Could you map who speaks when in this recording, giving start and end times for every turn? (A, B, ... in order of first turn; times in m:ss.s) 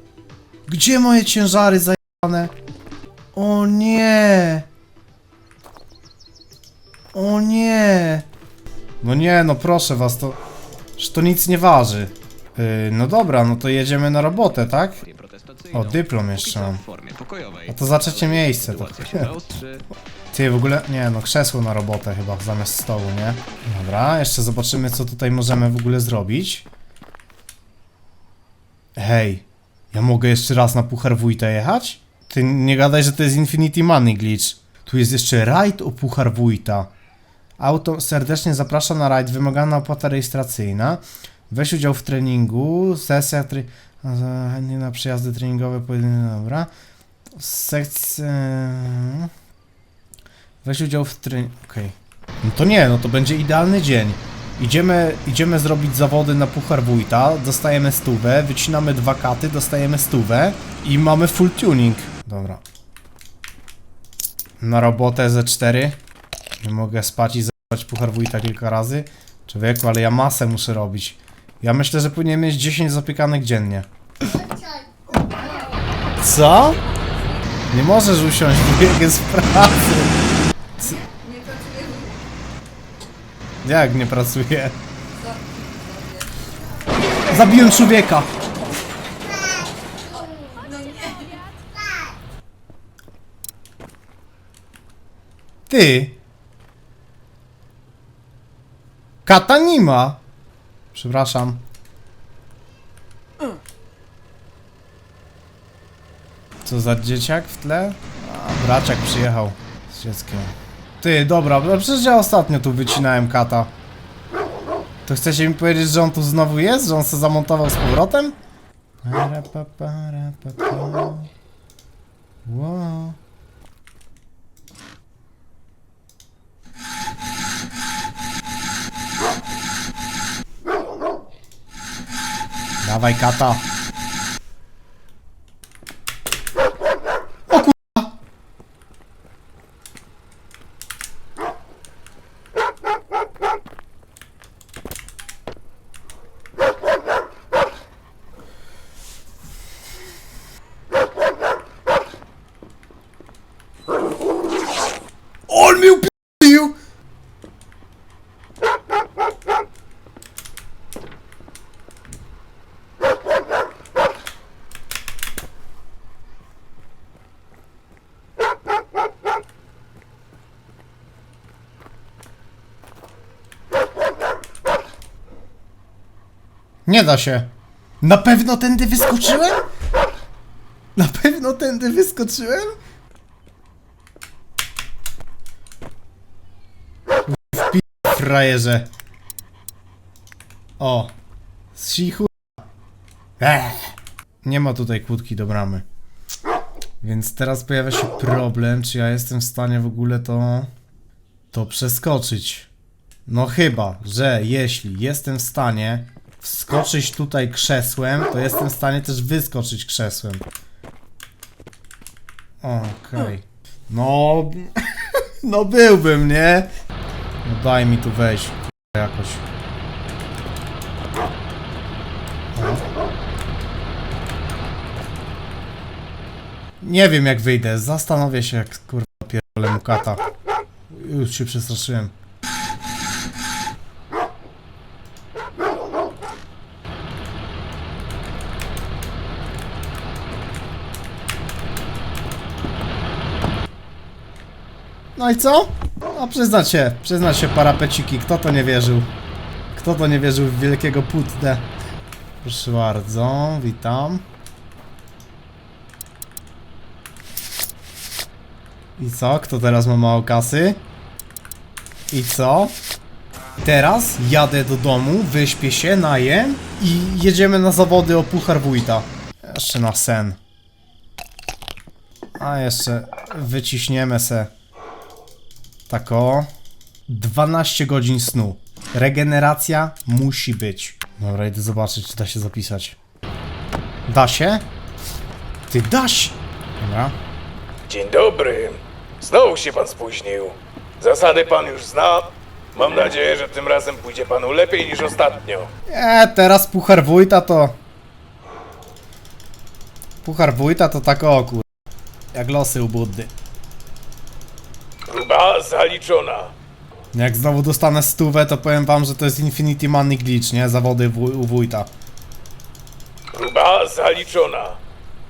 0:00.7-0:02.5 A
0:03.3-0:04.6 A
0:07.1-0:08.3 A
0:09.0-0:10.4 A
0:11.0-0:15.0 A
0:15.7-0:16.8 A
0:17.6-0:19.5 A
0:20.3-0:26.7 A
0:29.0-0:36.9 A
0:37.6-0:46.7 A
0:47.3-0:49.3 A
0:50.6-1:02.6 A
1:04.6-1:06.0 A
1:06.6-1:13.9 A
1:14.3-1:16.0 B
1:16.2-1:16.8 A
1:16.6-1:17.5 B
1:17.7-1:20.1 A
1:20.8-1:22.2 B
1:23.6-1:24.8 A
1:25.1-1:26.4 B
1:27.3-1:28.3 A
1:30.1-1:31.4 B
1:35.7-1:36.2 A
1:39.2-1:40.2 A
1:40.9-1:41.6 A
1:46.6-1:53.7 A
1:55.0-1:58.4 A
1:59.0-2:01.3 A
2:02.4-2:03.2 A
2:12.8-2:13.6 A
2:17.5-2:18.1 A
2:35.5-2:36.8 A
2:56.8-2:59.6 A
3:01.0-3:02.8 A
3:07.2-3:08.9 A
3:10.8-3:11.1 A
3:11.7-3:12.5 A
3:13.4-3:15.8 A
3:17.0-3:20.7 A
3:21.5-3:22.7 A
3:23.2-3:30.4 A
3:32.6-3:36.7 A
3:37.4-3:39.4 A
3:42.5-3:42.8 A
3:46.8-3:50.2 A
3:50.9-3:52.1 A
4:05.2-4:09.1 A
4:09.7-4:11.7 A
4:12.4-4:14.2 A
4:19.0-4:20.8 A
4:22.1-4:22.7 A
4:23.6-4:30.4 A
4:32.4-4:34.5 A
4:35.9-4:36.5 A
4:37.1-4:43.0 A
4:44.0-4:44.6 A
4:45.7-4:47.2 A
4:47.9-4:55.7 C
4:55.9-4:57.7 A
5:00.2-5:01.6 A
5:02.3-5:03.3 A
5:05.1-5:06.5 C
5:07.1-5:11.9 A
5:13.3-5:14.8 C